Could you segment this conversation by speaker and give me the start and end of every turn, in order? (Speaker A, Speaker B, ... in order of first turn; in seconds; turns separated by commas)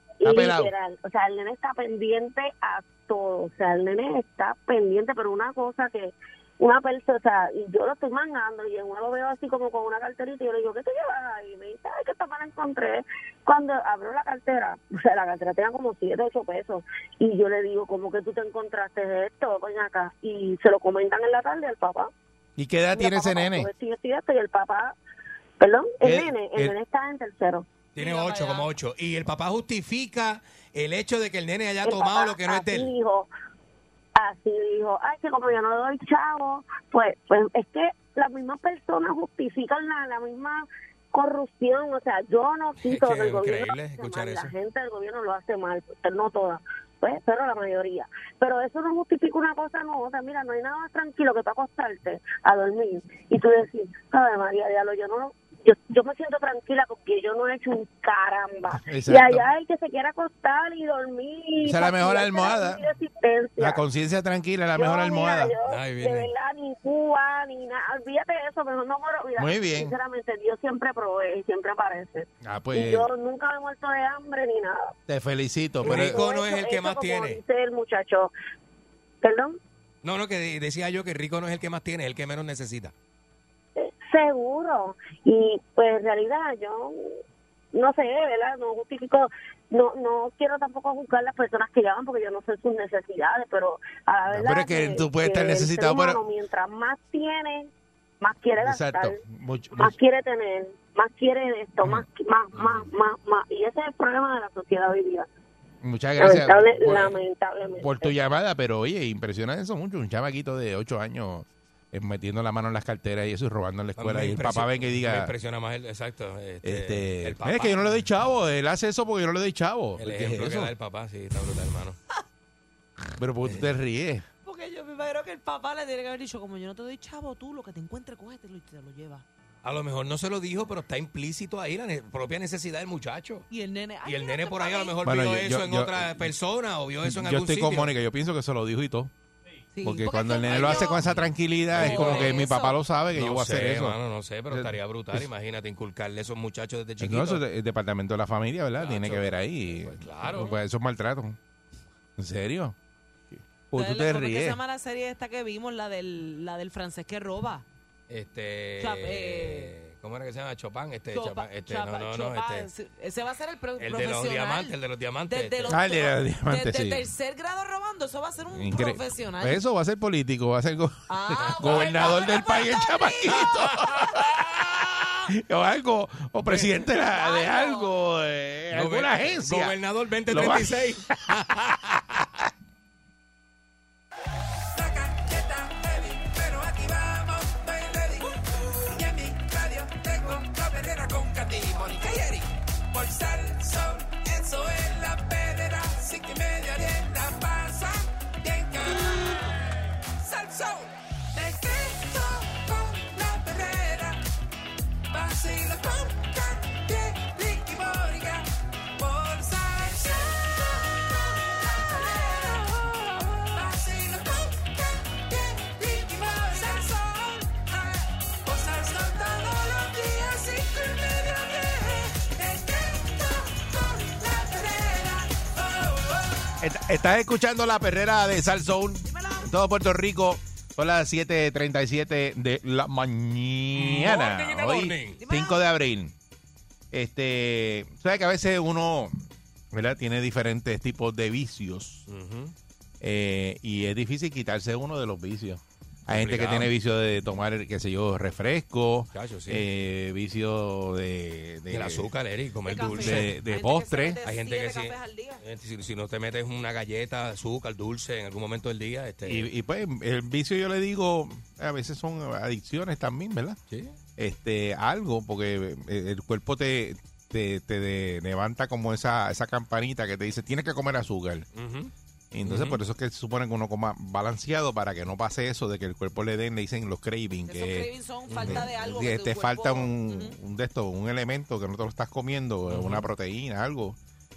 Speaker A: 0.2-22.1, Speaker B: 0.2-0.7, Speaker B: 22.6-23.7, Speaker A: 22.9-24.9, Speaker A: 25.6-27.6, Speaker B: 26.0-26.7, Speaker C: 27.9-32.9, Speaker D: 28.0-28.7, Speaker A: 31.8-33.3, Speaker A: 34.1-63.8, Speaker C: 42.8-44.5, Speaker B: 58.7-59.5, Speaker B: 61.6-62.8, Speaker B: 63.6-65.5, Speaker A: 64.8-74.9, Speaker C: 65.6-66.3, Speaker B: 69.3-69.9, Speaker B: 72.4-73.1, Speaker B: 75.1-76.2, Speaker C: 75.8-77.4, Speaker A: 75.8-78.3, Speaker A: 79.2-79.6, Speaker C: 80.0-82.9, Speaker A: 83.8-87.2, Speaker A: 87.7-99.2, Speaker B: 94.3-96.2, Speaker B: 98.6-99.9, Speaker A: 99.7-105.3, Speaker C: 102.5-102.9, Speaker B: 105.8-107.2, Speaker A: 106.2-108.1, Speaker B: 107.8-115.3, Speaker C: 114.0-118.0, Speaker B: 116.6-120.7, Speaker C: 120.0-122.0, Speaker B: 123.2-124.2, Speaker D: 124.4-129.2, Speaker C: 129.6-133.5, Speaker D: 133.5-134.9, Speaker C: 134.0-137.9, Speaker B: 135.0-136.3, Speaker B: 137.0-139.1, Speaker D: 139.7-141.0, Speaker B: 139.8-144.0, Speaker C: 140.5-142.4, Speaker D: 141.8-142.8, Speaker C: 143.1-147.4, Speaker B: 144.5-145.3, Speaker B: 147.0-151.4, Speaker C: 148.8-150.5, Speaker B: 152.2-152.8, Speaker B: 153.3-154.6, Speaker D: 153.7-157.6, Speaker C: 158.1-162.7, Speaker D: 158.8-159.7, Speaker D: 161.1-164.7, Speaker C: 163.8-165.8, Speaker D: 165.3-169.6, Speaker B: 165.7-167.1, Speaker B: 168.5-174.6, Speaker D: 171.1-173.5, Speaker C: 171.4-171.9, Speaker C: 173.3-175.1, Speaker B: 175.3-179.7, Speaker C: 176.4-176.7, Speaker D: 177.0-177.9, Speaker C: 178.7-181.7, Speaker B: 180.3-182.0, Speaker E: 184.7-199.6, Speaker E: 200.2-204.2, Speaker E: 205.1-226.5, Speaker B: 226.6-236.1, Speaker D: 229.1-229.5, Speaker C: 233.7-235.2, Speaker D: 235.2-235.6, Speaker B: 236.9-239.1, Speaker B: 239.7-242.1, Speaker C: 242.1-242.5, Speaker B: 243.0-252.1, Speaker C: 246.1-246.7, Speaker C: 249.1-249.6, Speaker C: 251.7-253.3, Speaker D: 252.7-255.4, Speaker B: 252.9-254.2, Speaker C: 254.2-259.5, Speaker B: 259.2-263.6, Speaker B: 264.2-271.5, Speaker C: 271.5-271.9, Speaker B: 272.3-284.0, Speaker C: 272.4-272.8, Speaker D: 277.5-280.4, Speaker C: 278.3-278.7, Speaker C: 282.7-283.1